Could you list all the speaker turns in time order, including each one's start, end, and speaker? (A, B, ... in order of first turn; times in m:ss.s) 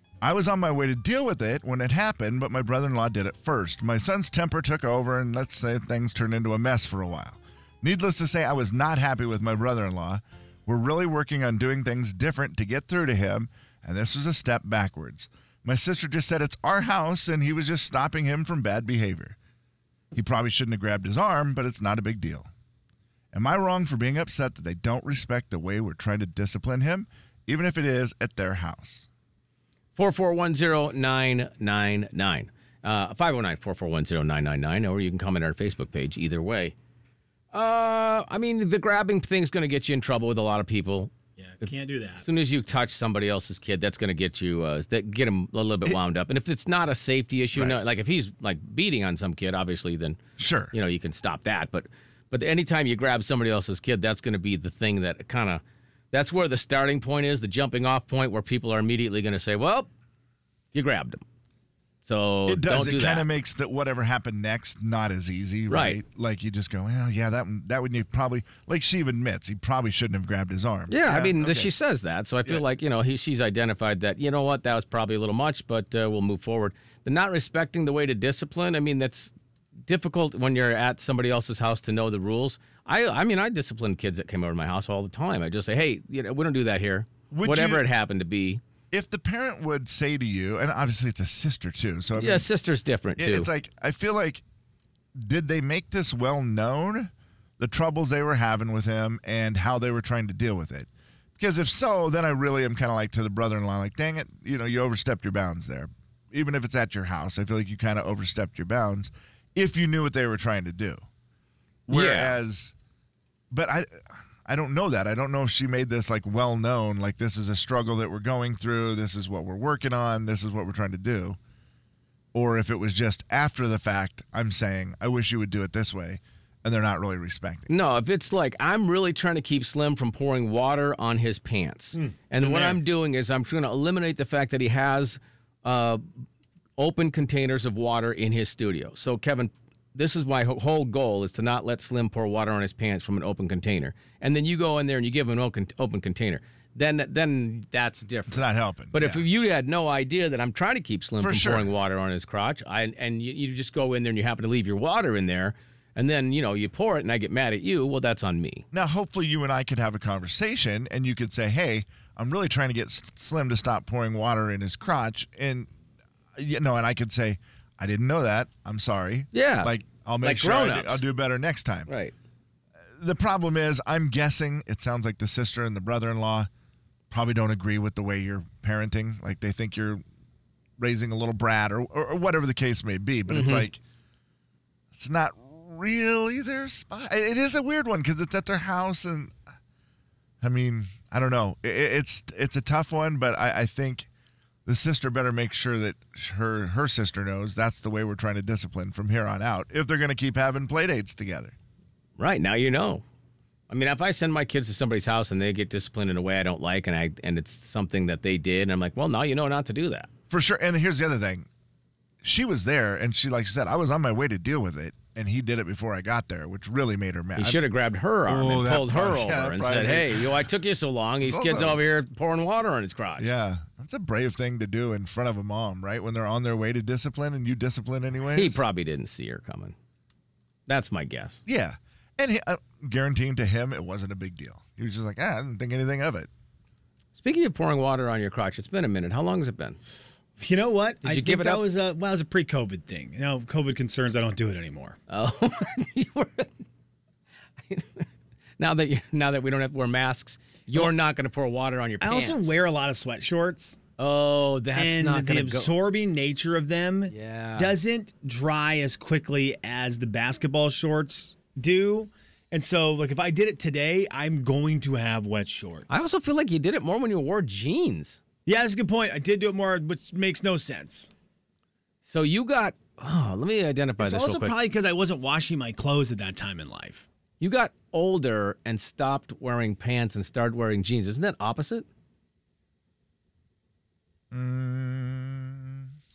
0:00.2-0:19.4 A
0:20.1-0:22.5 A
0:23.3-0:29.1 A
0:30.0-0:36.7 B
0:37.5-0:41.1 B
0:41.4-0:42.2 C
0:42.2-0:50.2 B
0:47.5-0:47.8 A
0:50.4-0:50.7 A
0:50.7-0:59.9 B
1:00.7-1:01.2 B
1:02.0-1:03.3 B
1:02.5-1:11.7 A
1:05.7-1:06.0 B
1:10.9-1:19.3 B
1:19.9-1:28.6 B
1:27.3-1:27.8 A
1:28.9-1:32.5 A
1:32.2-1:33.5 B
1:33.2-1:34.4 A
1:35.2-1:51.0 A
1:51.9-1:52.7 A
1:51.9-1:52.4 B
1:53.5-2:01.4 A
2:02.3-2:07.7 A
2:07.7-2:16.1 B
2:11.9-2:12.8 C
2:16.8-2:38.6 B
2:28.3-2:29.2 A
2:31.2-2:31.7 A
2:38.7-2:45.7 A
2:46.3-2:51.9 A
2:49.3-2:51.0 B
2:51.9-2:52.1 B
2:53.0-2:56.5 A
2:57.1-3:00.0 A
3:00.8-3:03.8 A
3:03.3-3:03.7 B
3:04.9-3:09.3 A
3:10.4-3:14.1 A
3:14.6-3:21.5 A
3:22.2-3:23.0 B
3:23.7-3:30.1 B
3:30.3-3:31.5 A
3:32.2-3:37.6 A
3:37.4-3:43.3 B
3:38.2-3:40.4 A
3:41.2-3:41.8 A
3:43.2-3:48.6 A
3:48.3-3:49.7 B
3:50.7-3:51.4 B
3:51.4-3:56.3 A
3:57.1-3:59.8 B
4:00.4-4:05.0 C
4:01.0-4:01.7 B
4:05.1-4:06.6 B
4:07.7-4:08.1 B
4:08.6-4:12.5 B
4:12.0-4:13.8 C
4:14.0-4:15.7 B
4:14.7-4:26.0 C
4:17.1-4:17.7 B
4:25.9-4:28.2 B
4:28.4-4:31.1 C
4:32.0-4:34.5 B
4:34.0-4:37.0 C
4:37.4-4:41.8 B
4:44.3-4:45.9 A